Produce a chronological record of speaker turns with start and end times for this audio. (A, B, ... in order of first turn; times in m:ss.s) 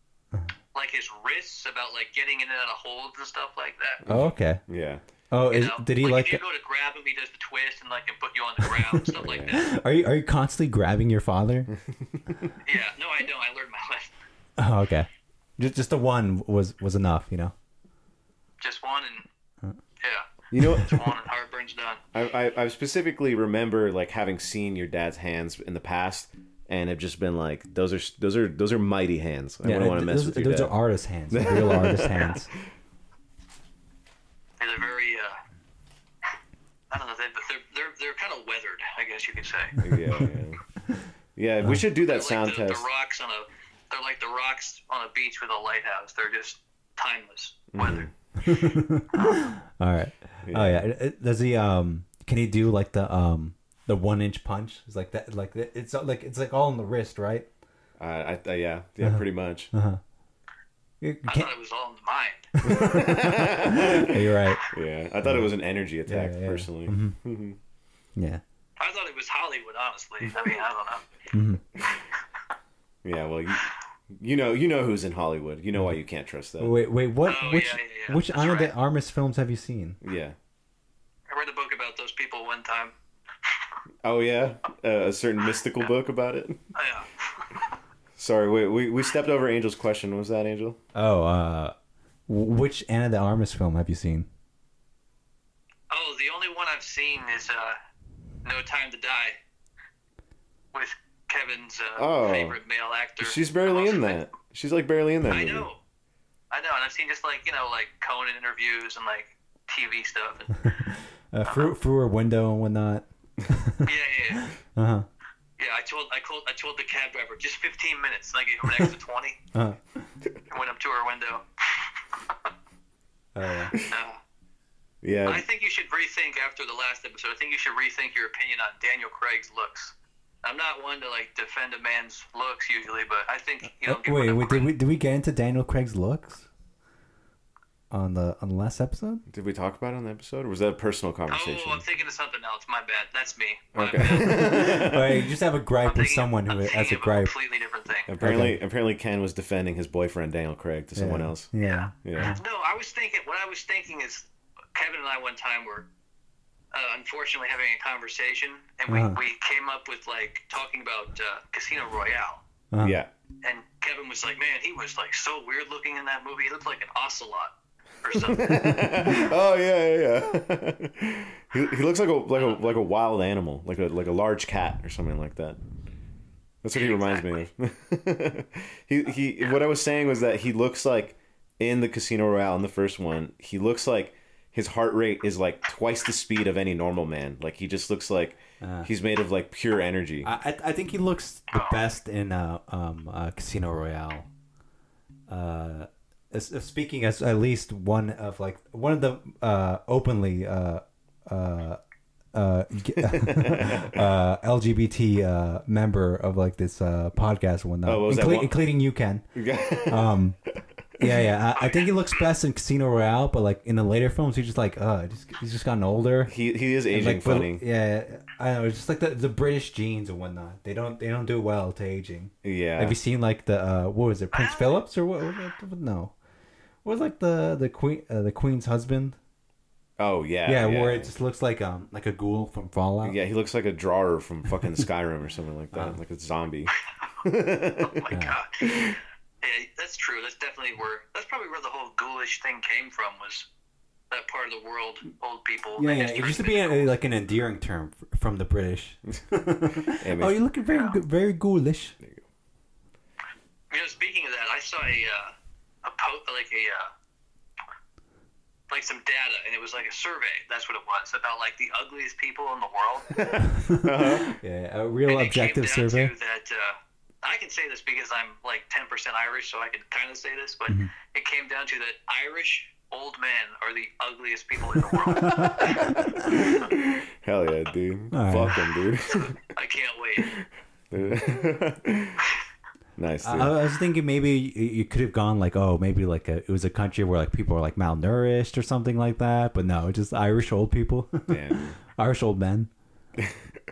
0:00.7-0:04.0 A
0:04.0-0:05.0 B
0:04.0-0:04.6 C
0:05.3-0:06.4 C
0:05.5-0:09.7 A
0:08.8-0:11.7 C
0:09.1-0:09.6 B
0:11.9-0:12.5 B
0:12.6-0:14.1 A
0:14.6-0:17.5 C
0:18.6-0:19.3 A
0:20.0-0:22.0 A
0:20.5-0:21.0 B
0:20.6-0:20.8 C
0:22.1-0:30.7 B
0:29.6-0:32.5 C
0:31.3-0:32.4 B
0:34.6-0:35.4 A
0:36.9-0:39.8 A
0:39.8-0:40.6 B
0:41.4-0:42.8 B
0:42.0-0:48.1 A
0:47.7-0:48.1 B
0:48.4-0:57.5 C
0:49.1-0:49.5 A
0:50.4-0:50.8 B
0:58.0-0:59.7 B
0:59.0-1:00.0 C
1:01.0-1:01.5 C
1:01.3-1:02.5 A
1:02.6-1:04.6 C
1:02.6-1:07.6 B
1:05.2-1:05.5 C
1:06.0-1:07.2 C
1:08.2-1:08.4 C
1:08.8-1:11.0 A
1:11.3-1:11.6 C
1:13.0-1:16.7 B
1:16.6-1:20.0 C
1:17.2-1:18.7 A
1:20.0-1:20.4 B
1:21.3-1:22.9 A
1:24.0-1:26.6 B
1:26.7-1:27.7 A
1:28.2-1:30.8 B
1:30.9-1:31.7 C
1:32.3-1:34.3 C
1:35.9-1:37.8 A
1:38.4-1:39.4 A
1:40.7-1:44.2 A
1:42.0-1:42.6 B
1:43.2-1:45.7 B
1:45.2-1:45.8 A
1:46.5-1:50.7 A
1:50.7-1:55.0 C
1:51.4-1:51.7 A
1:53.8-1:54.5 A
1:55.6-1:59.4 A
1:59.5-2:00.0 C
2:00.5-2:02.5 A
2:03.3-2:03.8 C
2:03.9-2:04.2 A
2:05.0-2:05.4 B
2:05.2-2:14.7 A
2:13.8-2:16.5 C
2:17.9-2:19.2 C
2:19.3-2:21.8 B
2:21.3-2:24.5 A
2:23.7-2:25.3 B
2:24.0-2:27.3 C
2:25.8-2:28.1 A
2:28.1-2:31.5 B
2:28.2-2:28.6 C
2:31.0-2:32.4 C
2:31.6-2:35.8 A
2:32.0-2:32.4 B
2:36.7-2:42.4 A
2:38.9-2:39.2 C
2:42.7-2:43.0 C
2:42.8-2:43.1 B
2:43.4-2:48.7 A
2:48.1-2:55.6 B
2:56.6-3:10.3 B
2:56.7-2:57.4 A
3:08.6-3:08.9 C
3:10.2-3:14.3 C
3:11.5-3:11.8 A
3:15.3-3:21.8 C
3:22.3-3:29.3 C
3:23.0-3:24.0 B
3:27.8-3:28.6 B
3:29.3-3:30.2 B
3:29.8-3:30.4 C
3:31.0-3:36.3 C
3:31.6-3:31.9 A
3:36.2-3:37.6 B
3:36.9-3:46.1 C
3:42.4-3:43.0 B
3:44.3-3:44.8 A
3:46.8-3:49.2 C
3:50.0-3:51.1 B
3:50.4-3:53.2 C
3:53.0-3:58.0 B
3:55.7-3:56.0 C
3:57.8-4:03.5 A
3:58.1-3:58.4 C
3:58.6-3:59.0 B
4:04.1-4:06.9 A
4:05.8-4:12.0 C
4:09.8-4:10.4 B
4:10.7-4:10.9 A
4:13.7-4:16.9 A
4:18.7-4:23.2 A
4:23.1-4:24.3 B
4:23.5-4:26.1 C
4:25.0-4:35.9 A
4:35.0-4:36.7 C
4:36.5-4:39.4 B
4:38.1-4:38.6 C
4:39.1-4:40.4 A
4:40.2-4:42.2 B
4:43.0-4:43.5 B
4:43.2-4:52.7 C
4:51.3-4:51.8 B
4:53.2-4:53.5 B